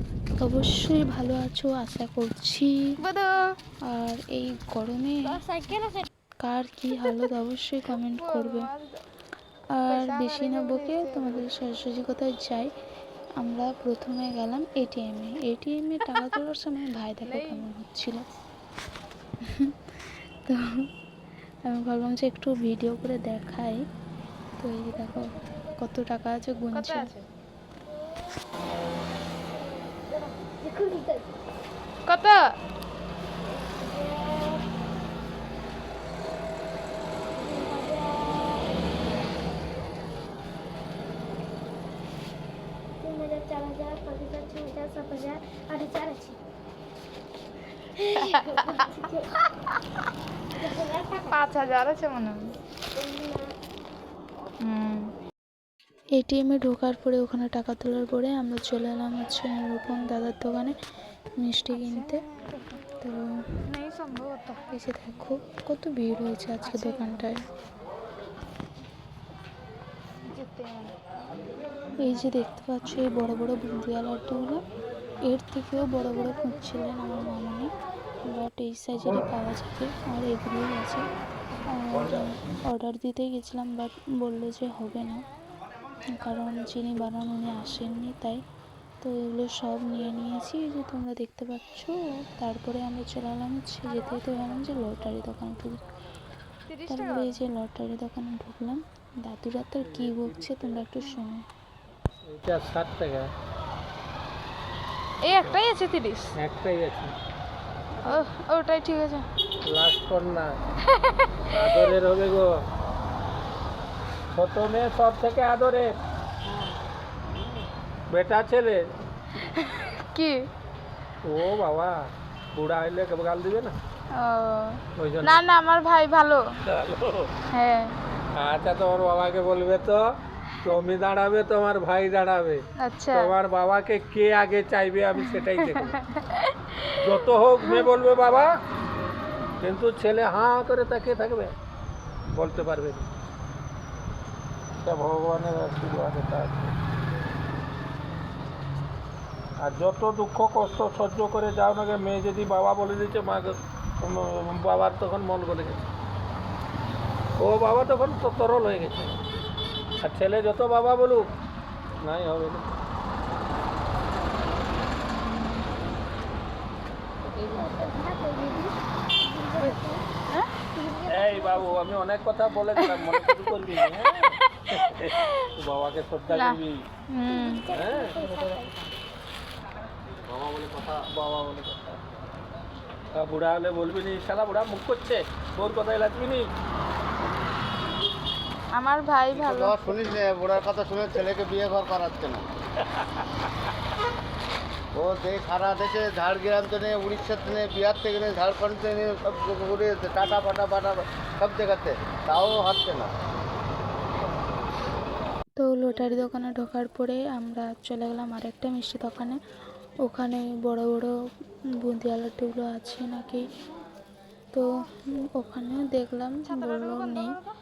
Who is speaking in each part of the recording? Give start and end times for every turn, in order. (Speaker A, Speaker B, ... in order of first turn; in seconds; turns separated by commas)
Speaker A: 0.4-2.7, Speaker B: 3.0-3.5, Speaker A: 3.9-5.4, Speaker A: 6.4-8.7, Speaker B: 8.0-8.9, Speaker A: 9.8-12.7, Speaker B: 9.9-11.5, Speaker A: 13.4-18.3, Speaker B: 17.3-17.7, Speaker A: 19.5-19.8, Speaker A: 21.6-23.8, Speaker A: 24.6-27.1, Speaker B: 26.7-27.2, Speaker C: 29.5-31.3, Speaker B: 32.1-32.4, Speaker C: 33.4-34.6, Speaker C: 37.4-38.9, Speaker C: 43.0-46.4, Speaker C: 48.0-49.4, Speaker B: 48.1-49.8, Speaker C: 50.5-51.6, Speaker B: 51.3-52.4, Speaker C: 52.9-53.5, Speaker B: 54.6-55.1, Speaker A: 56.2-60.8, Speaker A: 61.4-62.2, Speaker B: 61.8-62.8, Speaker B: 63.7-64.6, Speaker A: 64.7-67.4, Speaker B: 66.6-67.4, Speaker B: 70.3-71.0, Speaker A: 72.0-74.6, Speaker A: 75.3-77.7, Speaker A: 78.3-81.0, Speaker A: 81.7-85.2, Speaker A: 86.2-88.4, Speaker A: 89.0-95.8, Speaker B: 96.7-97.4, Speaker A: 96.9-101.4, Speaker D: 99.8-100.5, Speaker D: 102.3-103.3, Speaker B: 105.2-106.4, Speaker D: 106.4-107.1, Speaker B: 108.0-109.3, Speaker D: 109.7-110.6, Speaker B: 110.9-111.4, Speaker D: 111.5-112.5, Speaker D: 114.3-115.9, Speaker D: 118.1-118.8, Speaker B: 119.4-120.5, Speaker D: 121.2-123.8, Speaker B: 124.1-126.6, Speaker D: 125.0-125.4, Speaker D: 126.7-127.3, Speaker B: 127.5-128.0, Speaker D: 128.3-130.0, Speaker D: 130.6-136.0, Speaker B: 132.8-133.4, Speaker B: 135.2-137.9, Speaker D: 137.0-138.5, Speaker D: 139.6-141.5, Speaker D: 142.3-143.1, Speaker D: 144.8-146.8, Speaker D: 149.6-155.8, Speaker D: 157.4-159.2, Speaker D: 160.0-161.3, Speaker D: 162.0-162.7, Speaker D: 167.4-167.7, Speaker C: 167.4-170.1, Speaker C: 170.7-171.8, Speaker D: 171.1-176.8, Speaker B: 172.8-173.0, Speaker B: 175.1-175.5, Speaker B: 176.3-176.6, Speaker B: 177.1-177.7, Speaker C: 177.2-178.8, Speaker D: 177.7-178.2, Speaker D: 180.3-182.0, Speaker D: 183.1-186.5, Speaker B: 188.7-190.2, Speaker E: 189.3-192.4, Speaker D: 192.8-193.2, Speaker E: 195.0-203.1, Speaker A: 205.6-209.4, Speaker A: 210.0-211.1, Speaker A: 211.8-213.4, Speaker A: 214.5-217.4, Speaker B: 216.5-217.5